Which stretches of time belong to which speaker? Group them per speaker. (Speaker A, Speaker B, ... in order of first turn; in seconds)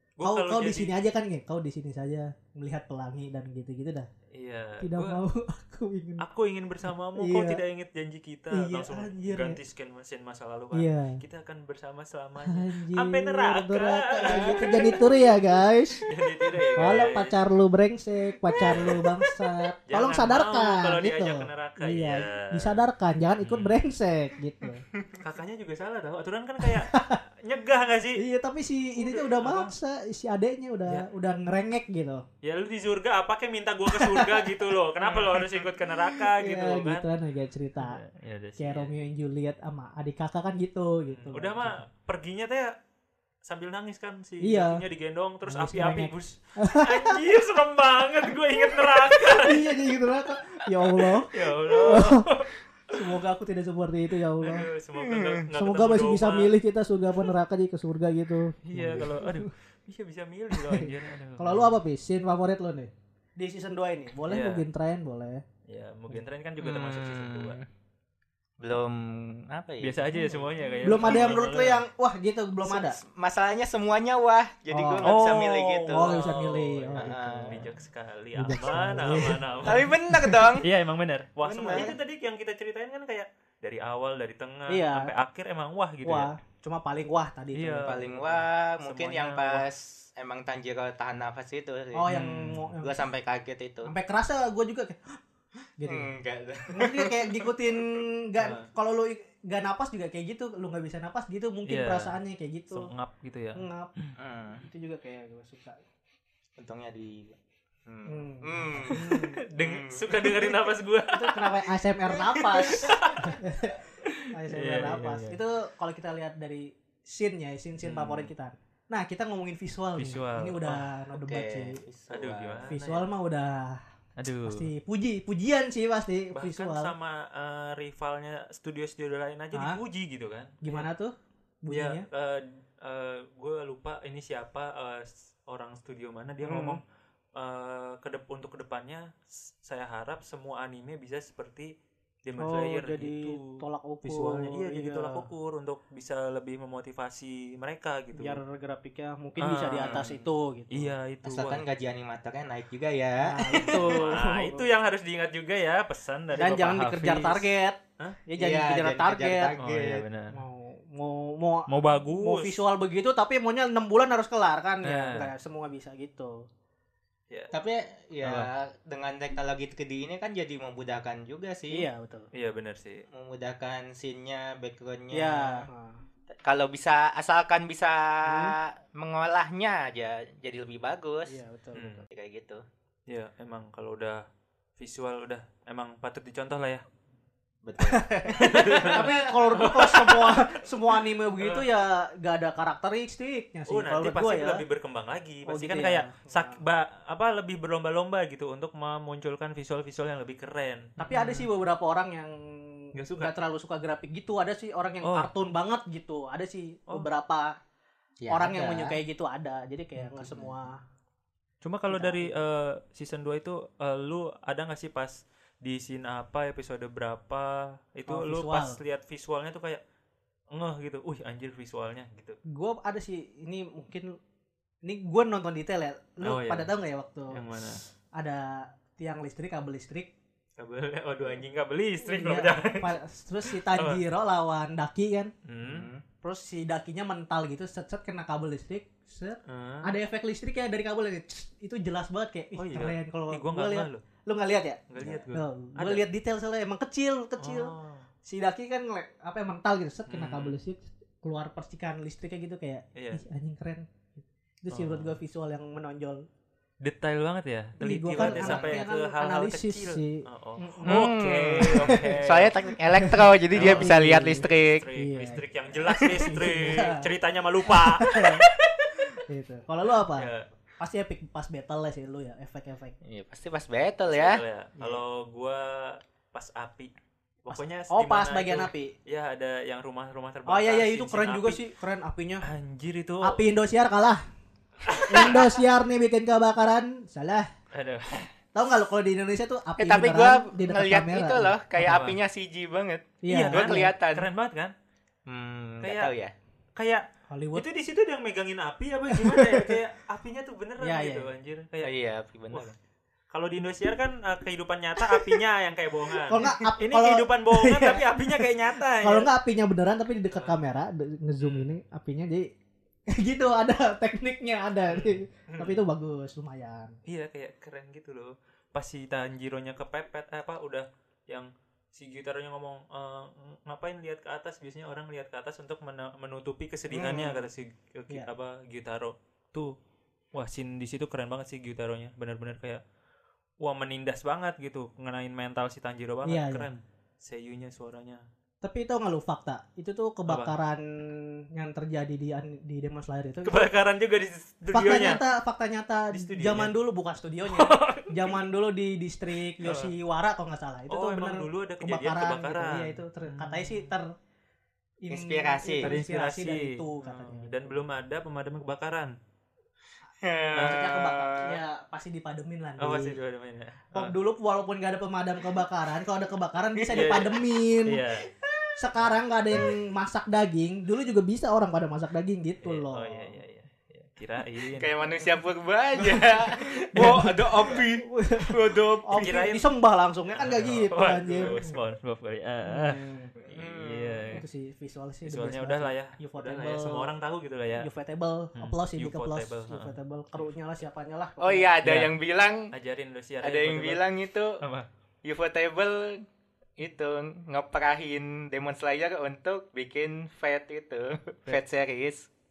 Speaker A: 0.2-0.9, 4.3-5.2, 6.2-15.3, 16.1-17.4, 18.6-19.1, 19.9-22.8, 23.4-23.8, 25.2-28.2, 29.0-29.7, 32.4-37.0, 37.8-38.9, 41.1-42.7, 43.5-49.6, 51.0-53.0, 54.4-56.5, 58.6-61.8, 64.3-64.6, 65.7-67.6, 69.8-71.8, 75.0-79.9, 80.6-86.3, 87.5-89.6, 92.1-92.7, 98.4-98.7, 101.7-102.1, 102.7-104.1, 108.8-111.5, 112.4-113.4, 114.0-115.4, 117.8-118.3, 120.0-120.9, 122.1-123.1, 124.2-124.7, 126.3-130.9, 131.7-136.8, 137.4-141.7, 142.2-148.4, 149.4-151.6, 153.6-158.2, 159.6-160.4, 161.7-162.6, 164.8-165.3, 168.2-168.5, 172.3-173.0, 181.8-182.1, 183.1-184.2, 184.8-186.8, 188.4-190.6, 191.4-191.6, 193.7-201.5, 202.9-203.3, 205.0-205.3, 211.6-219.8, 220.5-222.4, 226.2-226.7, 227.3-227.8, 230.6-234.0, 235.5-235.9, 239.5-239.9, 242.6-244.0, 244.9-246.0, 247.4-248.1, 250.1-250.6, 252.9-253.2, 254.7-255.2, 256.8-262.6, 263.5-268.4, 270.2-270.6, 274.1-276.9, 277.4-281.6, 282.4-283.4, 284.9-285.6, 287.7-288.3, 291.8-292.2, 293.3-294.7, 295.8-296.1, 296.8-301.9, 303.3-309.3, 311.4-311.7, 314.9-315.8, 317.1-329.8, 330.4-332.8, 333.6-338.2, 340.3-340.6, 343.4-345.2, 346.1-346.7, 347.5-348.4, 349.6-349.9, 350.9-353.9, 355.8-359.1, 360.6-360.9, 362.8-364.1, 366.9-368.3, 372.6-374.9, 379.2-379.6, 380.3-384.4, 385.2-387.9, 388.6-389.9, 391.8-392.1, 392.7-394.1, 394.6-394.9
Speaker B: 0.2-4.1, 4.8-6.2, 7.2-7.6, 8.5-9.6, 10.7-11.2, 12.5-16.1, 16.8-24.8, 26.6-27.2, 28.2-32.2, 33.9-34.5, 35.0-38.0, 38.6-41.8, 44.4-44.8, 45.5-47.2, 48.8-52.3, 52.9-54.7, 55.5-59.5, 60.5-65.4, 70.8-73.0, 74.7-75.2, 75.9-77.7, 78.4-80.5, 84.7-85.1, 86.0-88.0, 92.0-93.1, 93.8-95.2, 95.8-96.1, 96.7-102.9, 103.6-103.9, 104.6-105.8, 108.1-109.4, 111.1-121.8, 122.7-123.8, 124.5-126.9, 129.5-129.8, 130.6-132.1, 136.4-136.8, 142.4-145.2, 148.1-150.9, 153.2-154.7, 156.3-159.5, 160.3-166.4, 171.7-172.3, 175.1-176.0, 178.2-178.6, 181.3-182.1, 187.8-194.6, 195.5-196.6, 201.0-207.6, 208.3-210.8, 211.9-212.3, 218.1-218.8, 222.5-224.2, 224.8-227.4, 228.1-230.1, 232.0-235.3, 236.2-247.7, 248.2-256.3, 257.8-261.1, 261.7-262.2, 262.9-264.5, 265.0-267.1, 267.7-268.5, 269.3-270.3, 270.8-273.0, 277.5-278.9, 280.5-282.4, 283.2-284.2, 285.1-287.5, 288.5-292.0, 293.2-293.9, 297.3-297.7, 299.1-299.8, 300.8-301.3, 306.3-308.5, 309.0-312.5, 313.1-316.9, 336.3-336.7, 338.6-343.7, 344.7-354.1, 355.0-357.8, 360.5-363.2, 363.9-368.0, 368.8-373.4, 376.0-381.8, 382.7-383.3, 384.3-387.1, 387.8-391.7
Speaker C: 14.2-15.0, 55.0-55.4, 66.6-67.7, 68.6-70.2, 70.9-71.4, 72.7-76.1, 77.0-77.6, 79.2-80.7, 81.4-81.9, 87.8-92.2, 92.8-93.9, 95.8-97.5, 104.2-104.6, 106.6-110.3, 121.2-122.7, 149.8-150.1, 151.2-154.0, 158.4-160.1, 167.5-171.9, 173.1-175.7, 176.4-181.4, 182.1-182.6, 187.6-189.1, 208.2-209.0, 210.1-210.5, 235.6-236.0, 258.2-258.8, 260.8-264.8, 273.0-274.4, 289.8-294.3, 295.3-296.3, 301.8-302.8, 327.0-327.3, 355.1-356.0, 360.2-361.6, 366.8-367.4, 368.4-368.9, 374.8-379.4, 383.5-384.3, 391.4-392.7, 393.4-394.6, 395.2-396.2, 396.8-402.3